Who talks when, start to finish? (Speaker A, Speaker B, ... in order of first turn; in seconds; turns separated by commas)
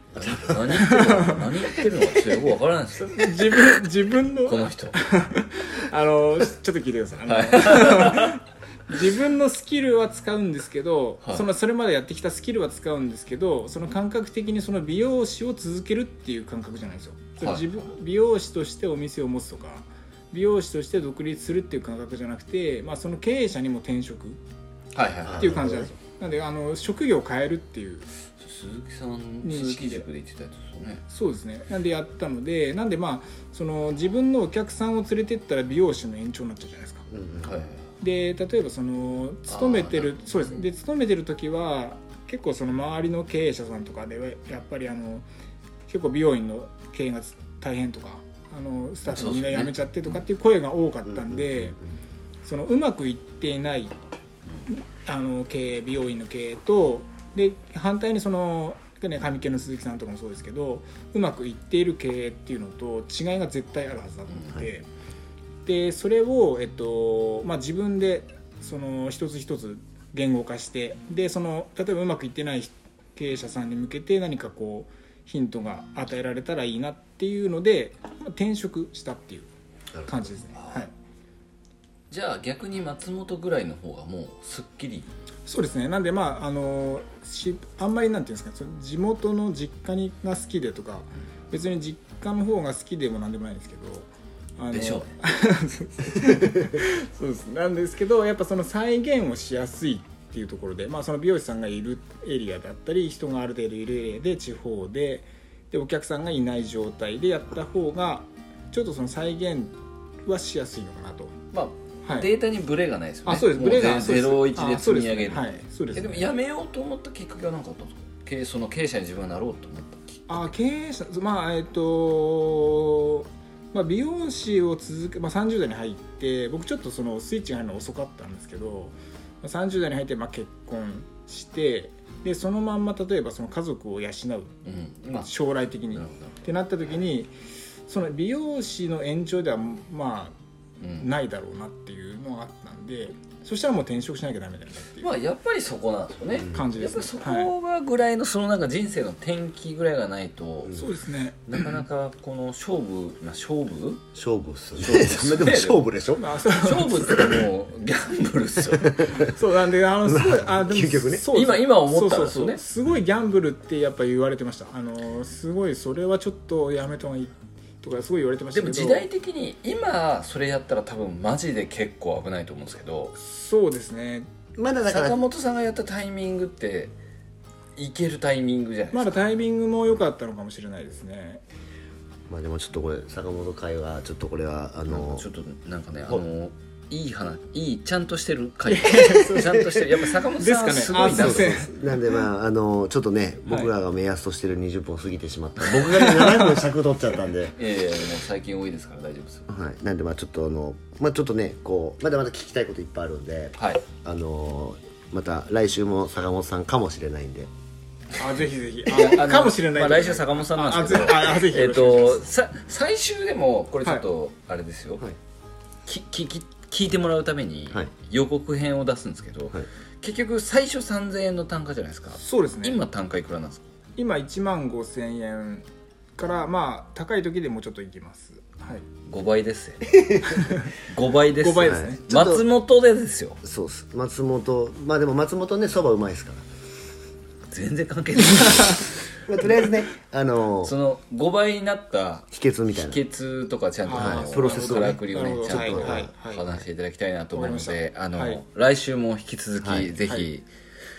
Speaker A: 0.1-3.8, Speaker B: 0.1-0.8, Speaker C: 0.7-1.4, Speaker C: 3.0-24.4, Speaker A: 4.4-5.0, Speaker A: 7.3-8.4, Speaker A: 17.4-17.7, Speaker A: 24.9-25.6, Speaker B: 25.2-25.9, Speaker C: 25.4-28.1, Speaker A: 28.4-31.0, Speaker C: 29.4-30.1, Speaker C: 31.1-37.1, Speaker B: 37.1-37.7, Speaker A: 37.4-37.9, Speaker C: 38.0-45.3, Speaker A: 39.5-40.6, Speaker C: 45.9-51.8, Speaker A: 49.1-49.8, Speaker B: 51.0-52.0, Speaker C: 52.4-53.9, Speaker C: 54.7-64.9, Speaker C: 65.6-79.5, Speaker C: 80.1-80.9, Speaker A: 80.5-80.9, Speaker A: 82.1-85.1, Speaker C: 85.5-111.3, Speaker A: 94.7-95.1, Speaker A: 111.5-120.5, Speaker C: 113.2-116.3, Speaker C: 120.3-134.5, Speaker A: 134.6-135.3, Speaker C: 135.1-137.3, Speaker A: 135.9-136.4, Speaker C: 137.9-140.3, Speaker A: 140.8-141.1, Speaker C: 141.0-145.1, Speaker A: 145.0-150.8, Speaker C: 146.5-147.5, Speaker C: 150.7-151.4, Speaker A: 151.5-154.0, Speaker B: 154.1-156.2, Speaker A: 154.8-155.8, Speaker C: 156.2-157.2, Speaker A: 156.5-159.1, Speaker B: 158.8-159.3, Speaker C: 159.0-169.1, Speaker B: 160.0-161.2, Speaker A: 161.3-162.6, Speaker A: 168.5-173.1, Speaker C: 173.2-174.3, Speaker B: 174.6-175.2, Speaker A: 174.9-176.9, Speaker A: 177.8-179.2, Speaker C: 178.9-181.4, Speaker B: 182.3-185.2, Speaker A: 184.9-191.6, Speaker C: 188.7-191.7, Speaker B: 189.5-189.8, Speaker B: 191.1-197.5, Speaker C: 196.0-196.5, Speaker A: 197.6-199.5, Speaker B: 199.5-207.5, Speaker A: 203.6-203.8, Speaker C: 208.2-212.2, Speaker A: 208.9-215.0, Speaker A: 215.8-223.7, Speaker C: 222.1-222.8, Speaker C: 224.0-228.9, Speaker A: 229.1-233.4, Speaker C: 230.2-230.7, Speaker C: 231.4-232.0, Speaker B: 231.6-232.5, Speaker B: 233.4-236.5, Speaker A: 237.5-239.0, Speaker B: 239.2-240.7, Speaker A: 240.6-250.5, Speaker B: 242.3-243.0, Speaker C: 243.8-246.4, Speaker B: 243.9-246.1, Speaker C: 247.3-248.4, Speaker B: 249.6-249.9